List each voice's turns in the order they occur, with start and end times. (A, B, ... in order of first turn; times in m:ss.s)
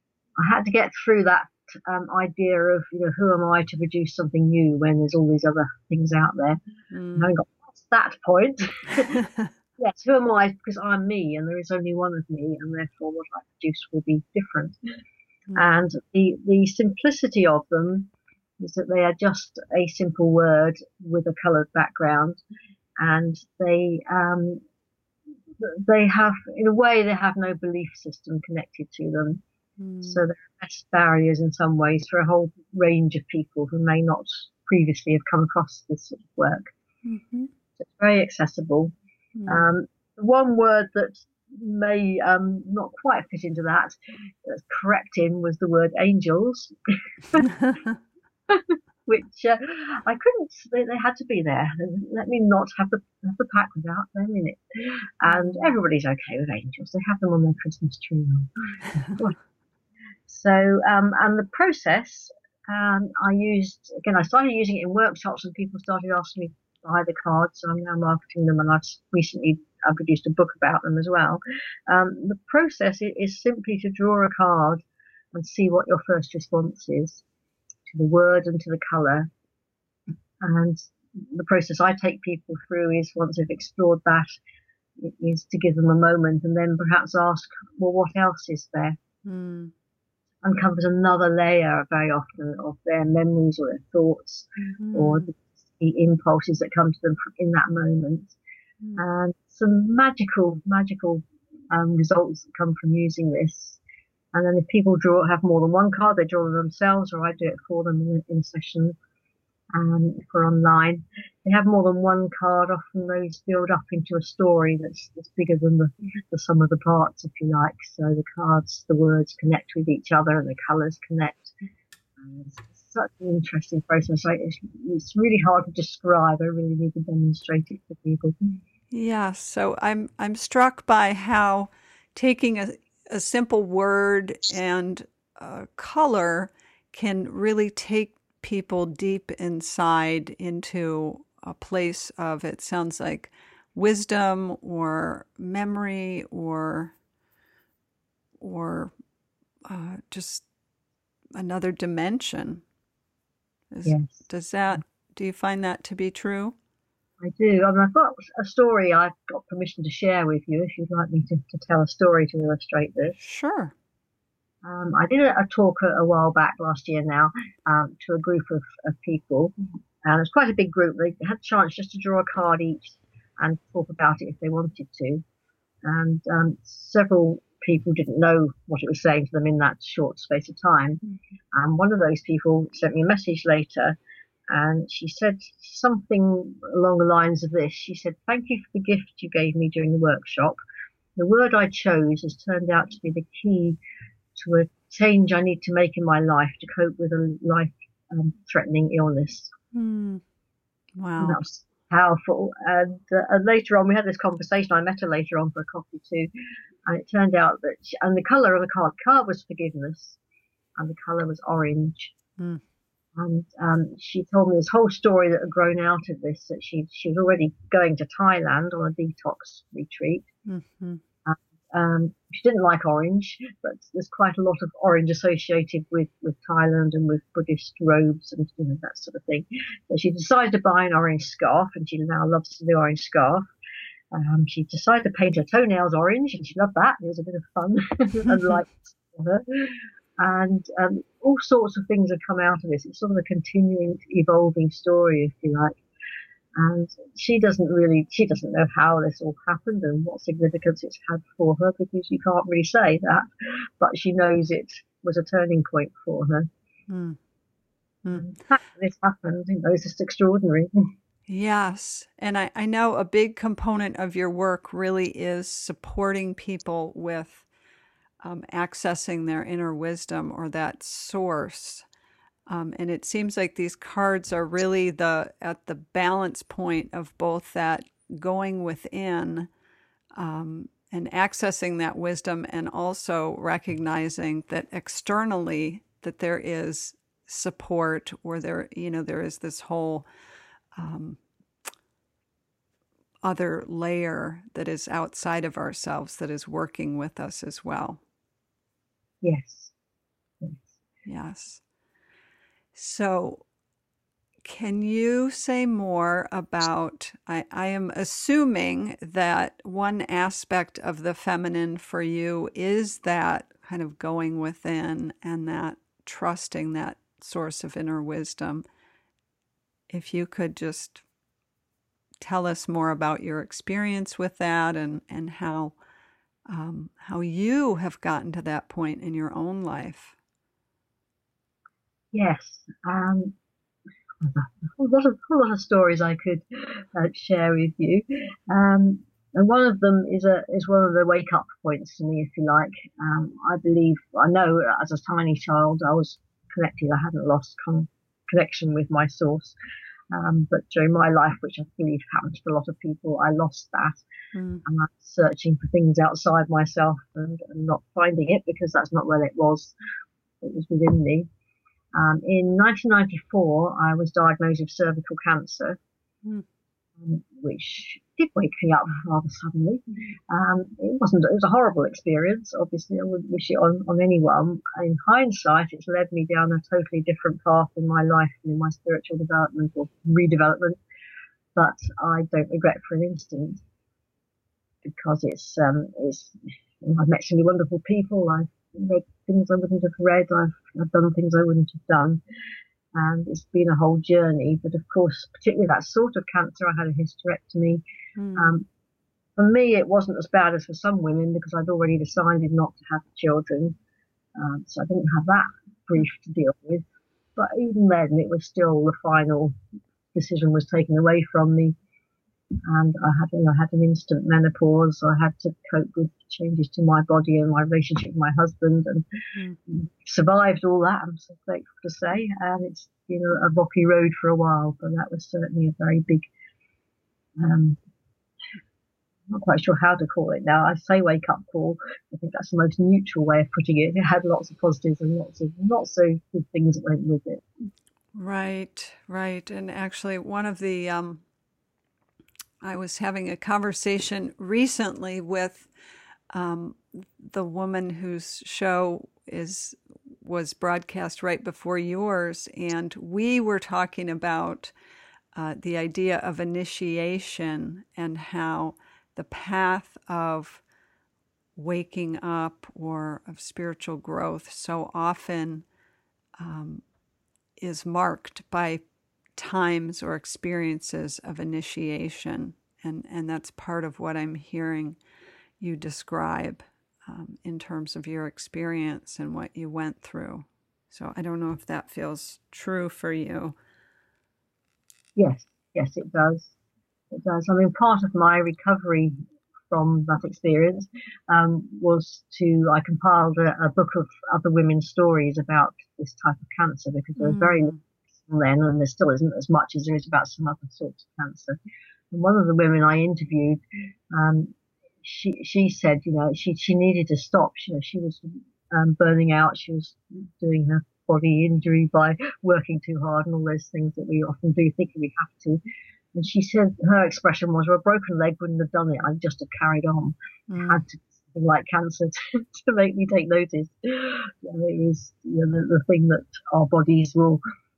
0:00.4-0:06.6 A
0:06.9-0:07.3 B
0:07.2-0:09.2 A
0:09.1-0:09.5 B
0:09.8-0:14.8 A
0:15.5-0:15.8 B
0:15.6-0:22.4 A
0:23.0-0:24.6 A
0:25.6-0:29.4 A
0:29.8-0:30.2 B
0:30.0-0:36.7 A
0:37.0-0:37.5 B
0:37.8-0:38.9 A
0:39.4-0:39.6 B
0:39.5-0:46.7 A
0:47.4-0:47.9 B
0:48.5-0:59.4 A
0:55.2-0:55.7 B
1:00.3-1:17.2 A
1:17.9-1:19.3 A
1:20.4-1:24.3 A
1:25.0-1:29.0 A
1:29.2-1:29.7 B
1:30.4-1:38.3 A
1:34.8-1:35.3 B
1:39.0-1:43.8 A
1:44.3-1:49.0 A
1:49.7-2:01.5 A
2:02.2-2:08.4 A
2:08.9-2:26.9 B
2:28.4-2:28.9 B
2:29.6-2:30.4 B
2:31.3-2:32.6 B
2:33.7-2:36.6 B
2:33.8-2:34.2 A
2:37.2-2:43.2 A
2:43.2-2:43.7 B
2:44.6-2:55.2 A
2:55.8-3:01.0 A
3:01.5-3:04.0 A
3:04.5-3:10.6 A
3:11.2-3:13.8 A
3:14.4-3:19.5 A
3:19.7-3:20.2 B
3:21.0-3:21.4 B
3:21.2-3:26.3 A
3:26.8-3:30.2 A
3:30.8-3:32.1 A
3:33.2-3:40.2 A
3:40.5-3:41.0 B
3:41.2-3:53.4 A
3:54.1-4:05.8 A
3:58.3-3:58.6 B
4:06.6-4:16.5 A
4:16.9-4:17.2 B
4:18.0-4:18.3 B
4:18.1-4:20.9 A
4:21.3-4:27.4 B
4:28.2-4:31.8 B
4:32.5-4:39.5 B
4:40.1-4:50.1 B
4:50.7-4:51.2 B
4:53.2-4:58.0 B
4:59.2-4:59.7 A
5:00.4-5:00.7 A
5:01.0-5:01.6 B
5:02.7-5:03.4 B
5:04.4-5:18.6 B
5:19.9-5:21.0 B
5:22.2-5:25.8 B
5:26.5-5:30.2 B
5:32.1-5:33.3 A
5:34.2-5:49.5 A
5:50.1-5:54.0 A
5:54.3-5:54.6 B
5:54.6-5:59.7 A
6:00.4-6:01.3 A
6:01.9-6:05.8 A
6:07.0-6:20.8 A
6:21.5-6:23.6 A
6:24.8-6:32.2 A
6:32.9-6:37.8 A
6:38.2-6:38.6 B
6:38.4-6:38.6 A
6:39.4-6:43.8 A
6:44.4-6:46.8 A
6:47.4-6:49.5 A
6:50.1-6:51.8 A
6:52.6-6:59.0 A
6:59.7-7:06.2 A
7:07.4-7:07.8 A
7:09.3-7:17.4 A
7:18.1-7:21.2 B
7:22.6-7:25.7 B
7:26.3-7:34.7 B
7:35.3-7:40.6 B
7:41.6-7:45.6 B
7:46.4-7:46.8 B
7:47.6-7:48.8 B
7:49.4-7:55.0 B
7:55.6-8:03.6 B
8:05.2-8:06.5 A
8:07.1-8:09.2 A
8:09.7-8:21.6 A
8:17.2-8:17.8 B
8:22.1-8:35.6 A
8:36.1-8:47.4 A
8:40.5-8:40.8 B